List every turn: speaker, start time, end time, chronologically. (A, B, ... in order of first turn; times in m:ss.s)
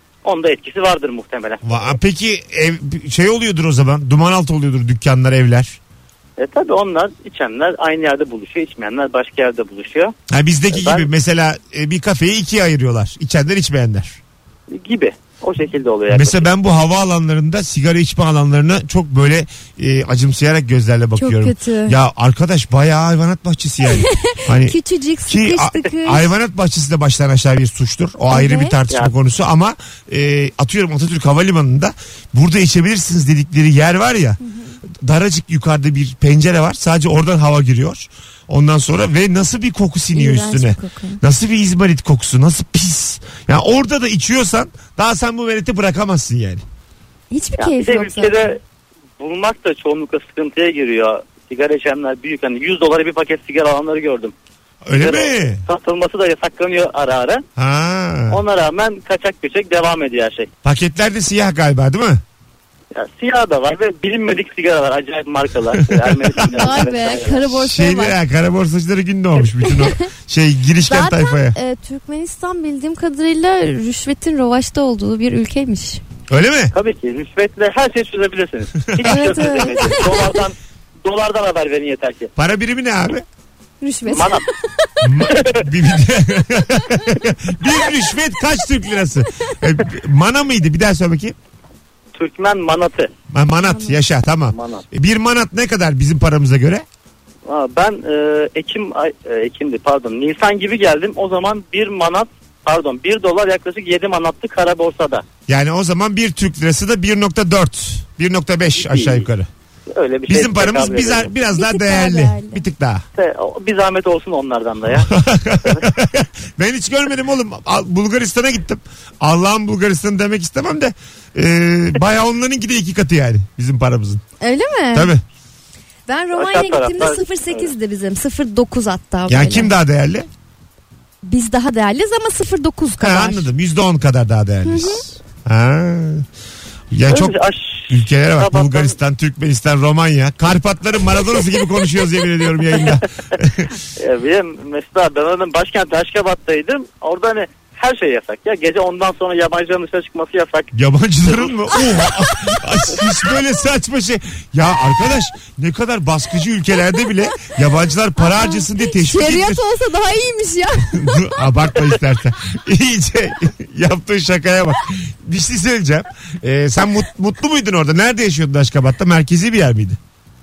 0:00.2-0:01.8 A
0:01.6-0:05.8 B
0:06.4-0:10.1 A
0:10.3-0:14.2 B
0:10.7-0:11.0 A
0:14.7-0:16.5 A
0:16.1-0:34.4 B
0:21.2-0:22.0 C
0:23.8-0:26.3 C
0:28.3-0:28.8 C
0:34.4-0:34.7 C
0:35.0-0:46.6 B
0:40.1-0:41.2 C
0:47.3-0:48.5 C
0:47.6-0:48.6 A
0:49.2-0:54.3 A
0:54.8-0:55.6 B
0:55.0-0:57.4 A
0:57.6-0:58.4 B
0:58.3-1:00.5 A
1:00.6-1:02.2 B
1:02.9-1:07.5 A
1:05.9-1:06.7 B
1:06.5-1:08.2 C
1:07.5-1:11.6 B
1:09.6-1:10.1 C
1:10.8-1:16.0 C
1:16.3-1:16.7 B
1:16.7-1:22.3 A
1:18.9-1:20.0 B
1:19.0-1:20.4 C
1:22.4-1:23.2 B
1:23.8-1:25.0 C
1:24.1-1:24.4 A
1:25.0-1:31.4 B
1:25.3-1:25.6 A
1:32.1-1:33.1 A
1:33.3-1:36.8 B
1:33.6-1:34.0 C
1:34.5-1:34.8 A
1:37.4-1:45.2 A
1:45.5-1:49.5 B
1:48.8-1:49.2 A
1:49.9-1:51.3 A
1:50.3-1:53.0 B
1:51.5-1:52.6 C
1:53.2-1:55.1 A
1:54.9-2:04.2 B
1:55.6-1:55.9 A
2:04.4-2:05.1 C
2:04.9-2:05.2 B
2:06.1-2:09.7 C
2:06.4-2:07.7 A
2:09.3-2:10.3 B
2:11.2-2:13.4 C
2:13.0-2:16.3 B
2:14.6-2:15.0 C
2:16.9-2:17.4 B
2:17.1-2:18.9 A
2:17.9-2:23.7 B
2:24.0-2:30.7 A
2:30.7-2:39.6 B
2:31.3-2:31.8 A
2:38.2-2:41.3 C
2:40.9-2:50.0 B